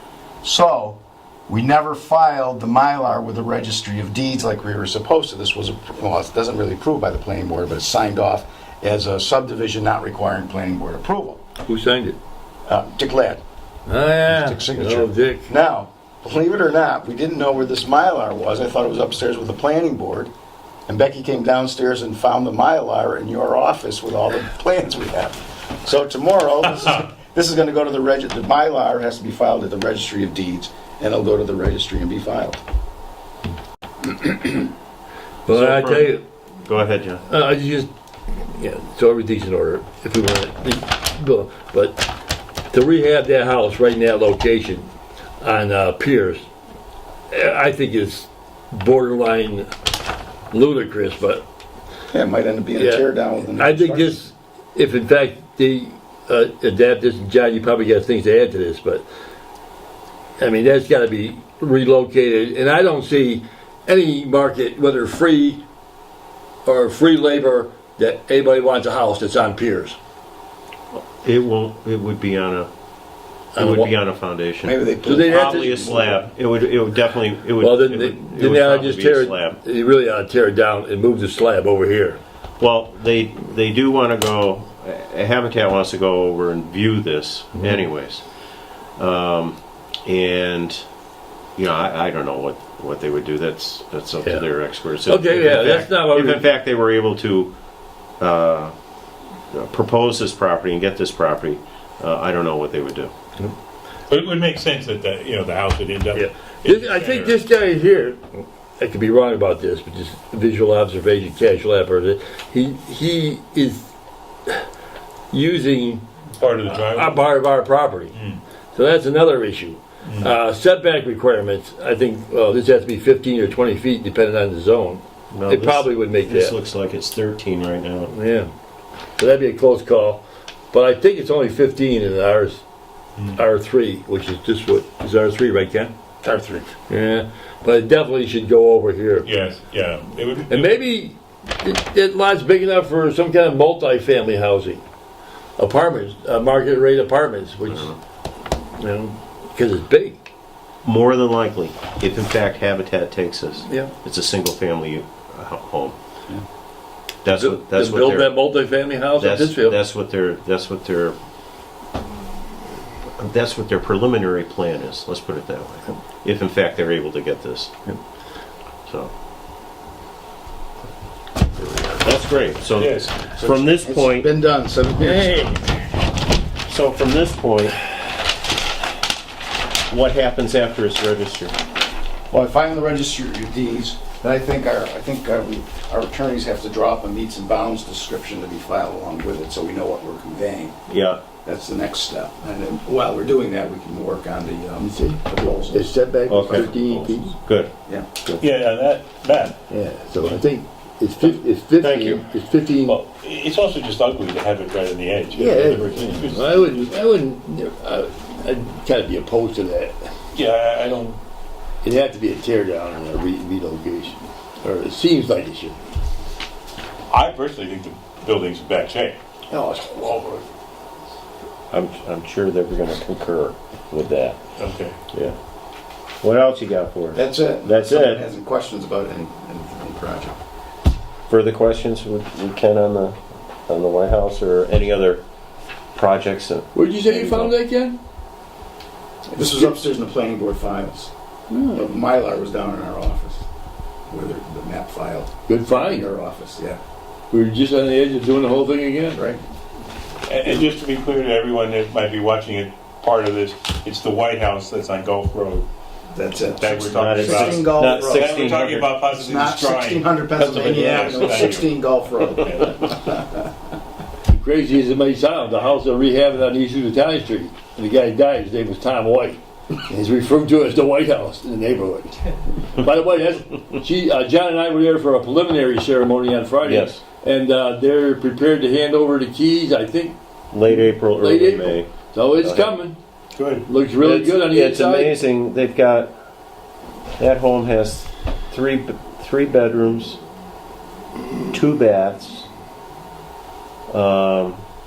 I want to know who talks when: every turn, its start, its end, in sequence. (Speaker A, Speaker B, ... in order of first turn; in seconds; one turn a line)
Speaker A: 0.4-11.4
Speaker B: 11.7-12.2
Speaker A: 12.7-13.4
Speaker B: 13.9-15.5
Speaker A: 14.3-20.3
Speaker A: 20.9-32.6
Speaker B: 35.5-36.2
Speaker C: 35.5-37.2
Speaker B: 37.3-42.1
Speaker B: 42.7-44.9
Speaker B: 45.4-46.5
Speaker B: 47.3-49.7
Speaker B: 50.5-51.4
Speaker A: 52.1-54.2
Speaker B: 52.7-59.0
Speaker B: 60.4-65.6
Speaker B: 66.6-70.0
Speaker C: 70.9-72.7
Speaker B: 73.5-73.9
Speaker C: 73.5-79.6
Speaker A: 74.6-76.2
Speaker B: 75.0-75.7
Speaker B: 77.6-82.2
Speaker C: 82.6-88.2
Speaker C: 89.0-90.8
Speaker C: 91.6-97.5
Speaker B: 95.1-96.4
Speaker C: 98.2-98.7
Speaker C: 99.5-103.1
Speaker D: 104.1-107.3
Speaker B: 106.1-113.9
Speaker B: 115.3-116.0
Speaker D: 116.3-117.2
Speaker B: 116.6-118.1
Speaker D: 118.1-118.4
Speaker B: 118.7-126.5
Speaker D: 120.0-120.3
Speaker C: 125.3-128.1
Speaker B: 128.1-128.5
Speaker B: 129.2-132.6
Speaker B: 133.3-135.9
Speaker A: 136.2-136.7
Speaker B: 136.9-139.3
Speaker D: 139.2-140.7
Speaker B: 140.5-144.8
Speaker B: 145.6-147.9
Speaker C: 147.7-148.0
Speaker B: 148.8-150.2
Speaker C: 150.8-155.9
Speaker C: 157.2-158.4
Speaker B: 157.3-159.8
Speaker C: 159.1-161.2
Speaker C: 163.2-167.7
Speaker A: 171.6-172.0
Speaker C: 172.0-174.3
Speaker D: 172.8-173.1
Speaker A: 173.3-175.6
Speaker B: 175.0-175.6
Speaker C: 176.6-177.8
Speaker C: 179.9-181.5
Speaker A: 182.3-190.7
Speaker C: 190.9-191.2
Speaker A: 191.4-195.9
Speaker B: 194.8-197.3
Speaker C: 196.3-197.7
Speaker D: 198.4-199.6
Speaker B: 199.7-203.0
Speaker C: 201.8-202.2
Speaker D: 202.9-206.8
Speaker B: 205.3-209.9
Speaker D: 210.3-211.2
Speaker B: 211.8-215.8
Speaker D: 217.1-219.2
Speaker B: 219.5-219.8
Speaker D: 219.9-220.4
Speaker C: 221.7-224.4
Speaker D: 224.6-225.0
Speaker C: 225.1-225.4
Speaker C: 226.2-228.2
Speaker A: 227.1-230.4
Speaker C: 231.3-235.2
Speaker C: 235.9-237.5
Speaker B: 236.7-238.0
Speaker A: 239.3-241.1
Speaker B: 241.5-241.9
Speaker A: 241.7-243.4
Speaker A: 244.1-246.8
Speaker B: 245.5-246.1
Speaker B: 247.3-249.2
Speaker A: 249.1-249.4
Speaker D: 250.2-255.7
Speaker A: 256.1-258.4
Speaker D: 256.5-261.7
Speaker C: 256.9-258.9
Speaker A: 259.1-263.4
Speaker D: 262.4-262.8
Speaker B: 264.3-282.9
Speaker C: 276.6-277.0
Speaker C: 280.5-282.8
Speaker D: 283.3-283.7
Speaker B: 283.6-285.2
Speaker C: 284.0-286.1
Speaker C: 287.2-290.2
Speaker C: 291.5-292.5
Speaker C: 293.9-294.6